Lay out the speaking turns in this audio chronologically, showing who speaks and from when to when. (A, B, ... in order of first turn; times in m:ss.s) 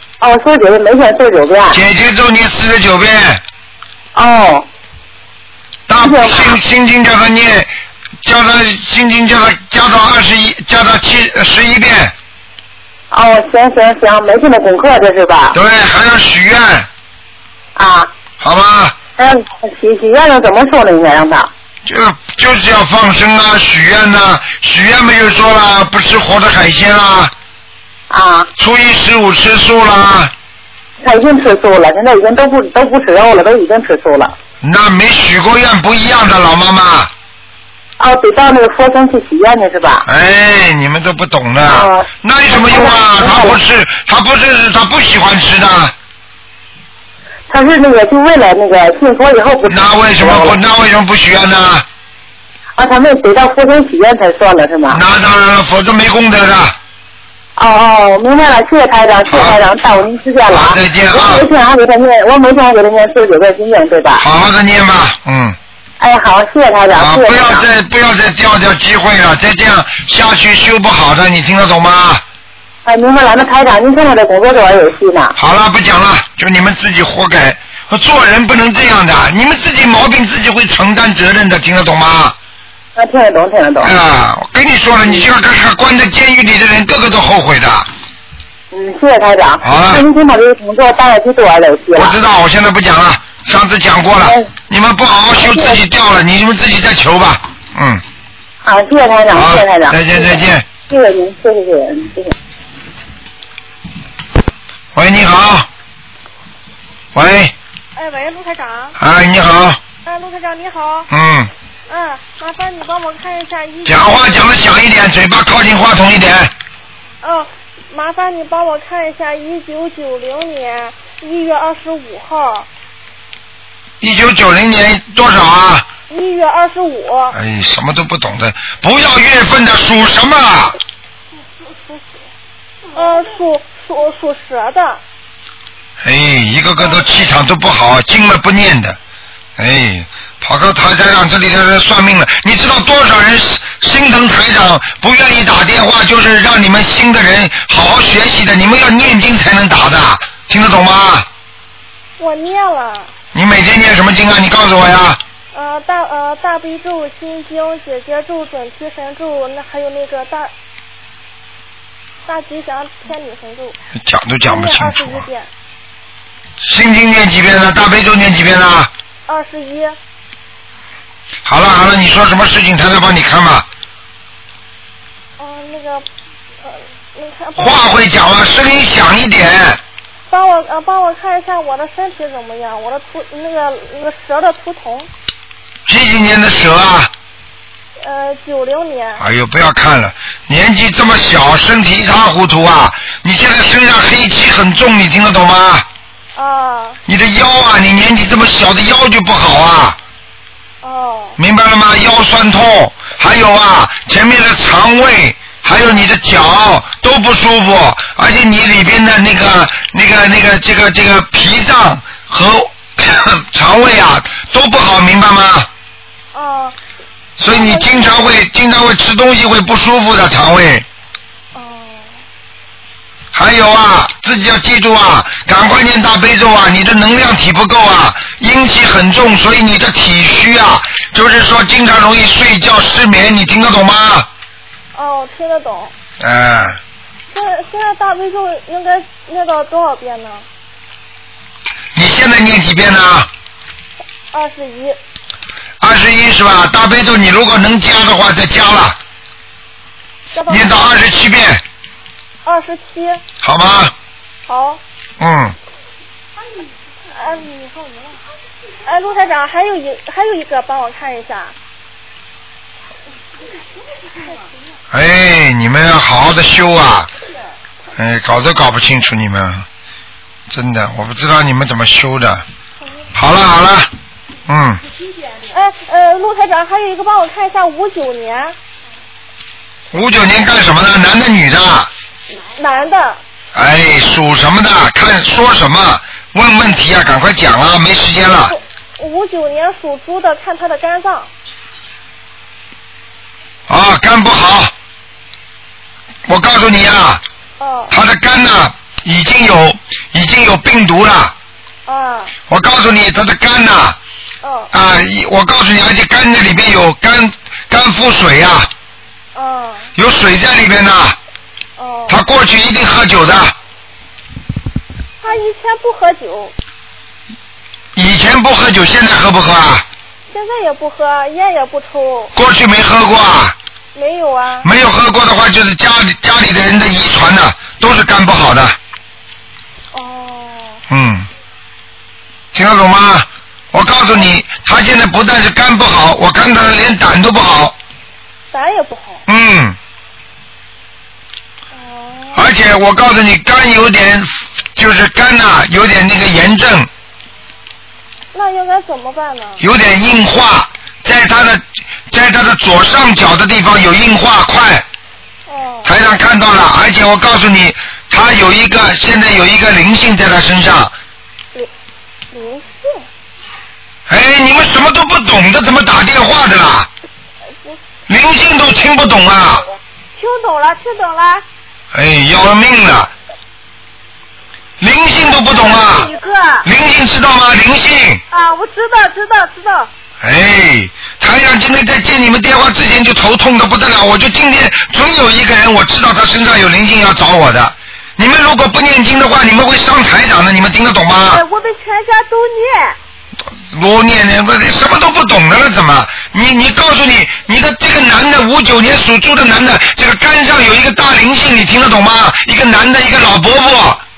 0:00.2-0:01.8 A
0:01.7-0:03.4 B
0:04.1-0:04.7 A
0:05.9-0:12.1 B
0:06.0-0:06.6 A
0:13.1-0:15.6 A
0:15.5-0:16.9 B
0:17.8-0:18.1 A
0:18.4-0:19.0 B
0:19.2-0:21.5 A
0:21.9-0:27.3 B
0:28.1-0:28.5 A
0:28.6-0:30.3 B
0:31.0-0:34.4 A
0:34.6-0:37.1 B
0:38.0-0:40.1 A
0:40.0-0:45.9 B
0:41.6-0:43.6 A
0:47.5-0:50.6 A
0:49.7-0:51.8 B
0:52.8-0:55.0 A
0:54.9-0:56.8 B
0:57.6-1:04.2 A
0:59.3-0:59.6 B
1:00.5-1:01.5 B
1:04.2-1:05.6 B
1:06.0-1:07.7 A
1:07.0-1:12.2 B
1:12.8-1:15.4 A
1:15.4-1:22.4 B
1:23.0-1:24.0 A
1:23.8-1:27.9 B
1:25.0-1:25.2 A
1:28.7-1:32.2 A
1:29.6-1:30.0 B
1:32.0-1:38.0 B
1:34.2-1:34.5 A
1:35.4-1:35.8 A
1:38.6-1:42.3 A
1:39.3-1:40.7 B
1:44.9-1:45.7 B
1:47.2-1:47.5 B
1:48.0-1:49.0 C
1:49.0-1:49.8 B
1:50.0-1:51.1 C
1:51.1-1:51.5 B
1:51.9-1:54.6 C
1:53.8-1:56.5 B
1:57.2-2:02.7 C
2:04.0-2:05.9 B
2:06.1-2:07.4 C
2:07.3-2:10.8 B
2:11.8-2:12.0 C
2:12.9-2:15.0 C
2:16.0-2:19.0 B
2:19.6-2:31.3 B
2:32.2-2:33.1 C
2:33.3-2:35.2 B
2:35.5-2:40.5 C
2:42.3-2:43.8 C
2:44.0-2:45.3 B
2:44.4-2:45.5 C
2:46.6-2:48.9 B
2:49.3-2:50.0 C
2:51.4-2:53.7 B
2:55.4-2:56.1 C
2:56.6-2:57.9 C
2:57.6-2:59.8 B
3:00.3-3:05.1 C
3:05.9-3:07.1 B
3:08.0-3:09.2 C
3:09.2-3:15.9 B
3:16.4-3:17.0 C
3:17.1-3:20.0 B
3:20.8-3:21.4 C
3:21.4-3:35.7 B
3:36.3-3:36.8 C
3:37.4-3:40.9 B
3:37.4-3:38.1 C
3:41.5-3:42.2 C
3:43.3-3:54.3 B
3:54.9-3:55.9 C
3:56.2-3:56.8 B
3:57.3-4:00.5 C
4:02.0-4:03.3 B
4:04.3-4:05.0 C
4:05.8-4:09.0 B
4:10.3-4:10.7 C
4:10.5-4:11.6 B
4:12.4-4:13.2 C
4:13.4-4:13.9 B
4:14.5-4:14.8 C
4:15.2-4:15.6 B
4:17.1-4:18.2 C
4:18.8-4:21.6 C
4:24.9-4:27.1 B
4:28.0-4:29.7 B
4:30.5-4:32.4 B
4:33.1-4:33.9 B
4:34.5-4:34.8 B
4:35.5-4:38.6 C
4:39.9-4:41.9 B
4:42.6-4:43.2 C
4:43.6-4:48.5 B
4:48.5-4:51.3 C
4:53.7-4:54.7 B
4:56.3-4:57.2 B
4:57.6-4:58.0 C
4:57.9-5:01.4 B
5:01.9-5:02.4 C
5:02.5-5:04.0 B
5:04.4-5:04.7 C
5:04.7-5:08.7 B
5:09.4-5:09.9 C
5:10.0-5:11.2 B
5:11.8-5:12.2 C
5:12.1-5:13.5 B
5:15.2-5:16.5 C
5:18.0-5:19.8 B
5:20.3-5:22.3 C
5:22.4-5:23.6 B
5:24.0-5:24.7 C
5:24.6-5:28.8 B
5:29.9-5:30.8 C
5:30.9-5:31.3 B
5:32.5-5:37.8 B
5:38.5-5:39.2 C
5:39.3-5:39.8 B
5:41.7-5:42.5 C
5:42.3-5:46.9 B
5:48.3-5:49.6 C
5:49.6-5:54.8 B
5:55.5-5:55.9 C
5:55.8-6:00.9 B
6:02.3-6:03.1 C
6:04.1-6:06.9 B
6:08.1-6:09.7 B
6:10.2-6:11.4 C
6:11.9-6:13.1 B
6:14.8-6:16.1 B
6:15.5-6:16.7 C
6:16.6-6:18.2 B
6:18.3-6:19.9 C
6:20.2-6:31.4 B
6:31.3-6:33.0 C
6:33.7-6:44.0 B